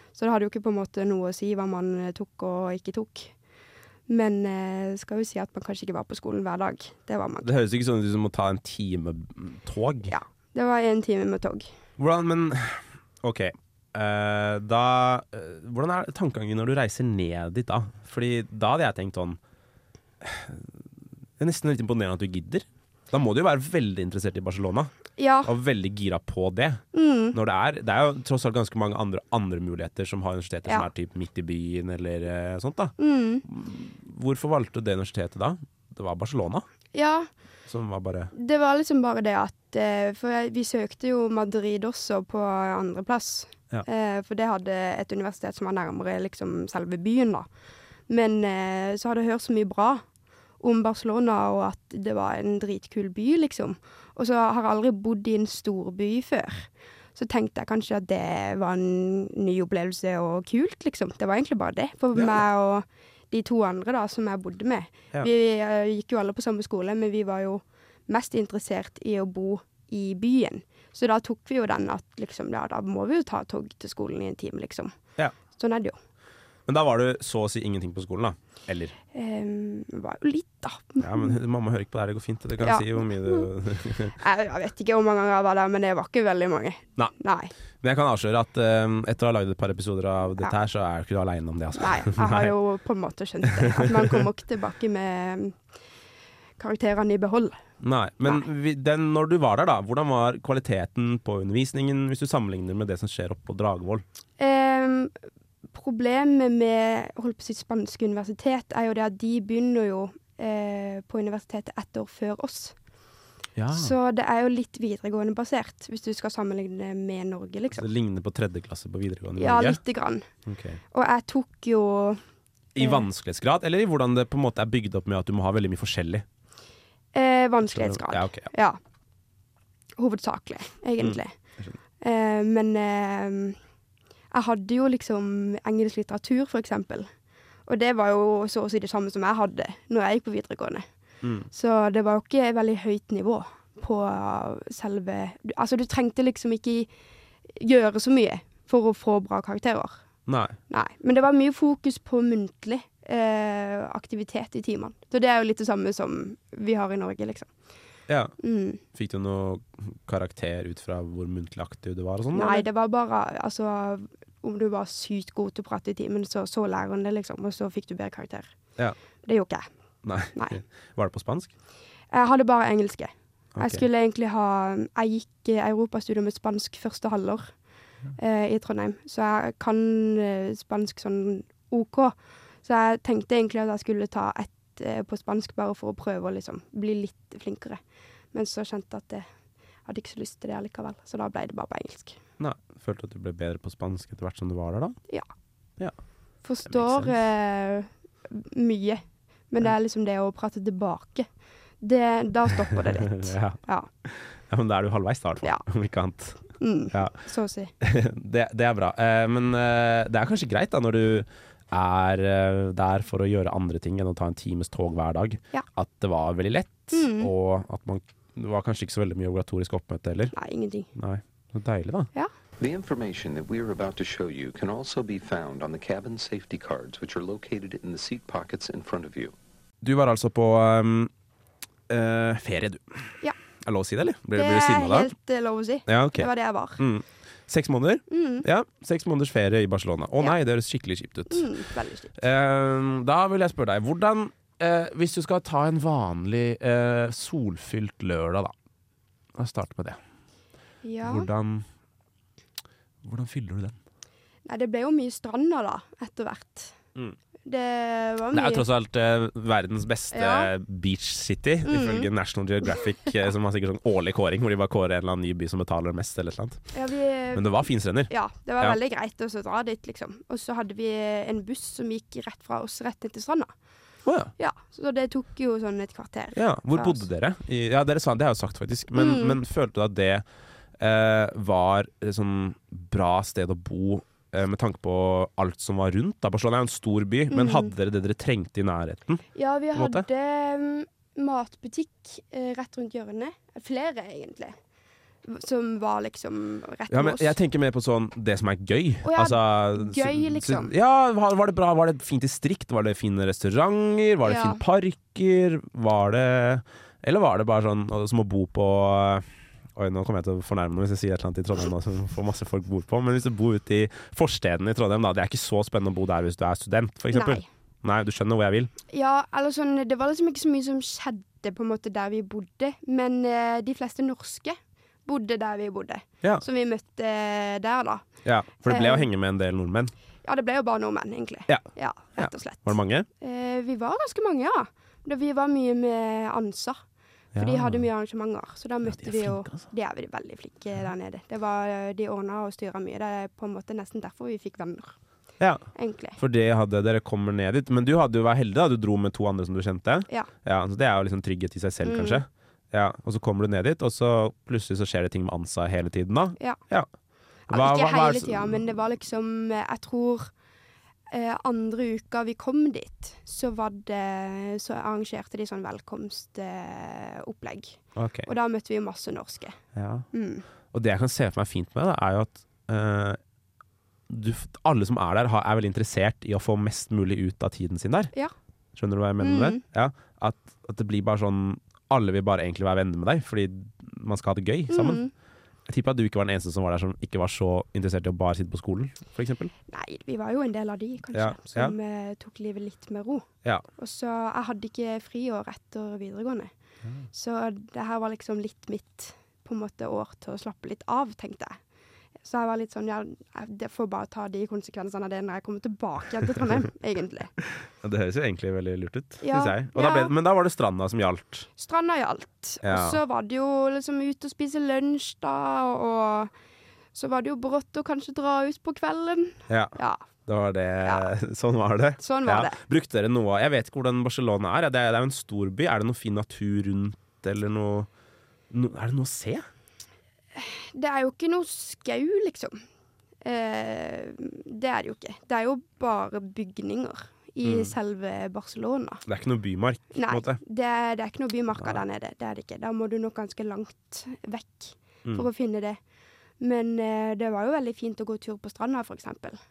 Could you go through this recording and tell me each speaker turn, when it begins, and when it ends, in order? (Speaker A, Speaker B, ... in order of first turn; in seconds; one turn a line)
Speaker A: 0.1-3.3
Speaker A: 4.1-7.5
Speaker B: 7.4-10.2
Speaker A: 10.1-11.7
Speaker B: 12.0-19.4
Speaker B: 20.2-20.7
Speaker B: 21.4-24.9
Speaker A: 25.2-25.5
Speaker B: 25.4-36.6
Speaker A: 26.9-27.4
Speaker A: 33.0-33.4
Speaker A: 36.9-37.3
Speaker B: 37.7-38.3
Speaker A: 38.3-47.5
Speaker A: 48.1-50.0
Speaker A: 50.6-75.0
Speaker B: 62.1-62.4
Speaker A: 75.5-76.0
Speaker B: 76.7-79.0
Speaker A: 79.1-81.4
Speaker B: 81.0-84.2
Speaker A: 82.6-83.5
Speaker A: 84.2-87.5
Speaker B: 87.8-92.5
Speaker A: 91.8-95.6
Speaker B: 93.5-94.2
Speaker A: 96.6-97.6
Speaker B: 97.8-104.0
Speaker A: 104.4-105.1
Speaker A: 105.7-112.8
Speaker B: 113.6-113.9
Speaker A: 113.7-117.9
Speaker B: 117.7-119.8
Speaker A: 119.4-120.2
Speaker B: 120.5-120.8
Speaker A: 120.9-122.2
Speaker B: 122.8-126.2
Speaker A: 122.8-123.0
Speaker A: 127.1-128.8
Speaker B: 127.6-128.5
Speaker A: 130.0-131.3
Speaker B: 131.0-131.8
Speaker A: 132.0-133.6
Speaker A: 134.3-137.1
Speaker A: 137.7-140.8
Speaker B: 141.2-141.5
Speaker A: 141.5-146.9
Speaker A: 147.6-150.0
Speaker B: 150.3-150.6
Speaker A: 150.7-157.5
Speaker B: 158.1-158.3
Speaker A: 158.4-158.8
Speaker B: 158.9-162.7
Speaker A: 162.3-168.5
Speaker A: 169.2-169.7
Speaker B: 170.0-171.5
Speaker A: 172.1-177.5
Speaker B: 173.6-173.8
Speaker A: 178.2-187.8
Speaker A: 188.3-189.3
Speaker A: 189.8-192.2
Speaker B: 192.4-195.0
Speaker A: 196.4-201.3
Speaker B: 196.7-197.2
Speaker A: 201.8-203.9
Speaker B: 202.8-207.2
Speaker A: 206.6-207.7
Speaker B: 207.8-220.3
Speaker A: 216.9-217.3
Speaker A: 220.3-220.9
Speaker B: 220.9-222.1
Speaker C: 222.6-229.3
Speaker B: 229.8-231.1
Speaker B: 231.9-235.1
Speaker A: 234.3-236.8
Speaker B: 235.9-241.6
Speaker A: 238.1-238.4
Speaker A: 241.3-242.2
Speaker B: 242.2-248.5
Speaker B: 249.4-250.0
Speaker A: 250.8-251.3
Speaker B: 251.0-251.7
Speaker B: 253.0-253.8
Speaker A: 254.5-256.8
Speaker A: 257.4-258.7
Speaker B: 258.3-266.7
Speaker A: 260.1-260.5
Speaker A: 261.6-262.1
Speaker A: 266.7-273.5
Speaker B: 267.3-268.8
Speaker B: 274.1-274.3
Speaker A: 274.4-277.1
Speaker B: 276.4-280.2
Speaker A: 279.0-279.4
Speaker B: 280.8-290.1
Speaker A: 287.3-287.7
Speaker A: 289.4-294.6
Speaker A: 295.2-297.4
Speaker B: 296.9-318.7
Speaker A: 299.0-300.7
Speaker A: 304.2-304.6
Speaker A: 317.1-317.4
Speaker A: 318.9-328.1
Speaker B: 328.2-329.9
Speaker A: 328.6-329.1
Speaker A: 330.2-336.8
Speaker B: 331.5-333.1
Speaker B: 337.3-337.9
Speaker A: 337.4-344.9
Speaker B: 338.9-339.7
Speaker B: 345.4-356.9
Speaker A: 345.8-346.2
Speaker A: 351.8-352.2
Speaker B: 357.5-358.7
Speaker A: 357.5-360.3
Speaker A: 361.1-369.6
Speaker B: 368.0-368.3
Speaker B: 369.8-370.1
Speaker A: 370.1-370.4
Speaker B: 370.7-373.2
Speaker B: 374.1-378.1
Speaker B: 378.8-385.0
Speaker A: 379.2-379.6
Speaker A: 384.7-385.1
Speaker B: 385.7-389.5
Speaker A: 389.7-396.5
Speaker B: 391.1-391.8
Speaker A: 397.1-401.6
Speaker A: 402.2-407.3
Speaker B: 407.5-411.5
Speaker A: 409.2-410.1
Speaker A: 411.6-416.3
Speaker B: 412.6-413.0
Speaker A: 416.9-420.0
Speaker B: 419.5-427.9
Speaker A: 420.8-421.1
Speaker A: 422.0-422.6
Speaker B: 428.5-429.5
Speaker A: 430.4-432.6
Speaker A: 433.2-439.0
Speaker B: 437.4-437.7
Speaker B: 439.1-440.4
Speaker A: 439.9-445.8
Speaker B: 441.6-441.8
Speaker A: 446.4-449.4